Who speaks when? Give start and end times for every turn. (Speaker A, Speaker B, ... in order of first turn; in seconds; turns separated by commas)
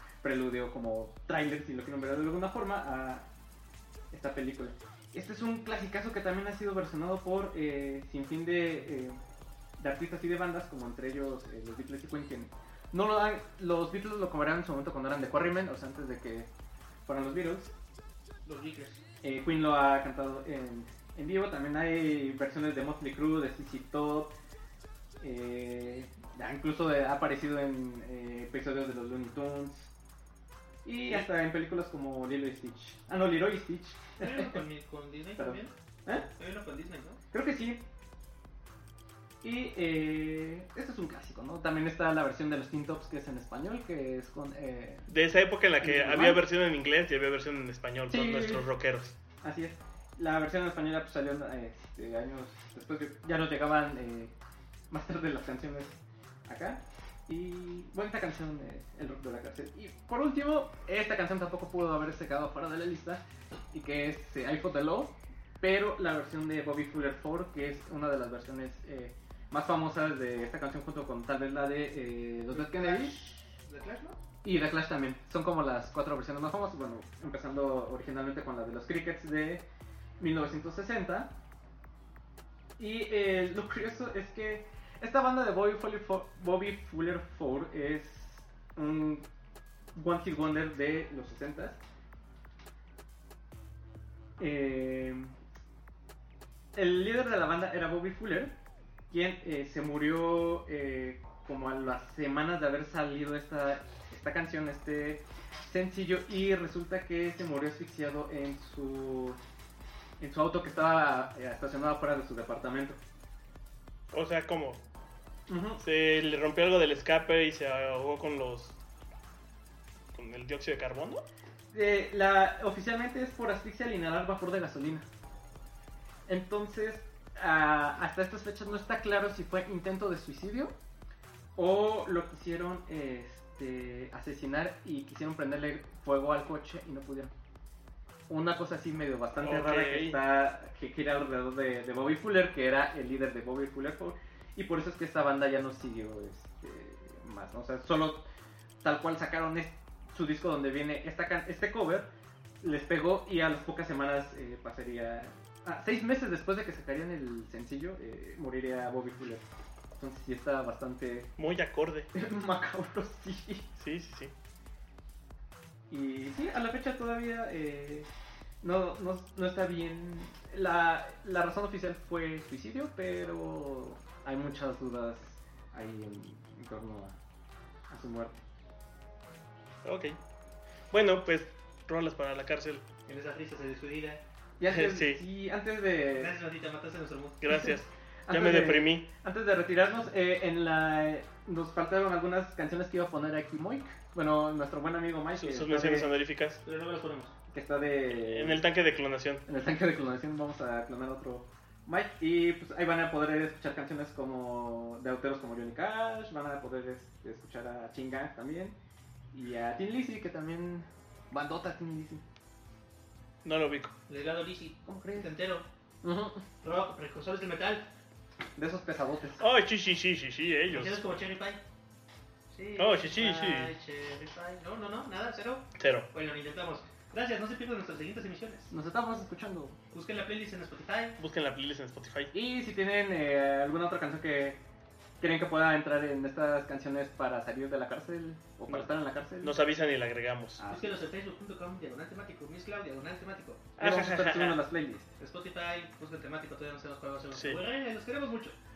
Speaker A: 0.2-3.3, Speaker A: 4.1-9.2, Speaker A: 9.8-16.5, Speaker A: 17.1-17.7, Speaker B: 18.4-19.0, Speaker A: 19.2-24.3, Speaker A: 25.2-29.9, Speaker A: 30.8-34.6, Speaker B: 34.2-37.2, Speaker A: 35.4-36.3, Speaker A: 37.3-37.8, Speaker A: 39.4-45.1, Speaker C: 45.1-49.1, Speaker A: 45.8-46.4, Speaker A: 48.1-48.7, Speaker A: 49.4-54.3, Speaker A: 54.9-63.2, Speaker A: 63.7-73.1, Speaker B: 72.5-74.2, Speaker A: 74.4-79.6, Speaker A: 80.2-81.3, Speaker A: 82.8-89.3, Speaker A: 89.9-91.8, Speaker A: 94.4-95.3, Speaker A: 96.7-98.5, Speaker A: 99.1-109.4, Speaker A: 110.2-113.0, Speaker C: 114.1-114.8, Speaker A: 115.5-115.8, Speaker C: 115.8-118.8, Speaker C: 120.1-121.2, Speaker A: 121.7-125.1, Speaker A: 126.3-130.7, Speaker A: 131.6-137.3, Speaker A: 138.3-148.3, Speaker C: 139.4-140.2, Speaker A: 148.8-152.1, Speaker A: 152.6-159.4, Speaker A: 159.9-161.3, Speaker C: 161.4-162.1, Speaker A: 162.1-163.7, Speaker C: 163.8-164.3, Speaker A: 165.9-168.1, Speaker A: 168.6-177.2, Speaker A: 177.9-178.4, Speaker C: 179.8-180.2, Speaker C: 180.9-182.8, Speaker B: 183.1-184.2, Speaker A: 184.6-186.3, Speaker C: 184.7-185.2, Speaker B: 186.1-187.4, Speaker C: 187.4-189.1, Speaker A: 188.3-196.1, Speaker C: 195.3-196.6, Speaker B: 196.6-197.3, Speaker A: 197.5-198.7, Speaker C: 198.2-199.4, Speaker A: 199.4-208.8, Speaker A: 209.3-212.2, Speaker C: 213.4-213.9, Speaker B: 214.1-215.7, Speaker A: 214.8-215.3, Speaker A: 216.0-216.4, Speaker B: 216.6-217.9, Speaker A: 218.6-219.4, Speaker C: 219.4-221.0, Speaker B: 220.7-221.6, Speaker B: 222.5-228.7, Speaker C: 222.8-223.7, Speaker C: 225.8-226.1, Speaker A: 228.7-229.8, Speaker B: 229.9-231.2, Speaker C: 231.2-232.3, Speaker A: 232.3-234.6, Speaker A: 235.2-239.6, Speaker C: 238.7-240.6, Speaker A: 240.6-241.1, Speaker B: 240.7-243.8, Speaker C: 243.8-244.6, Speaker A: 243.8-245.1, Speaker B: 245.2-248.6, Speaker C: 247.3-247.6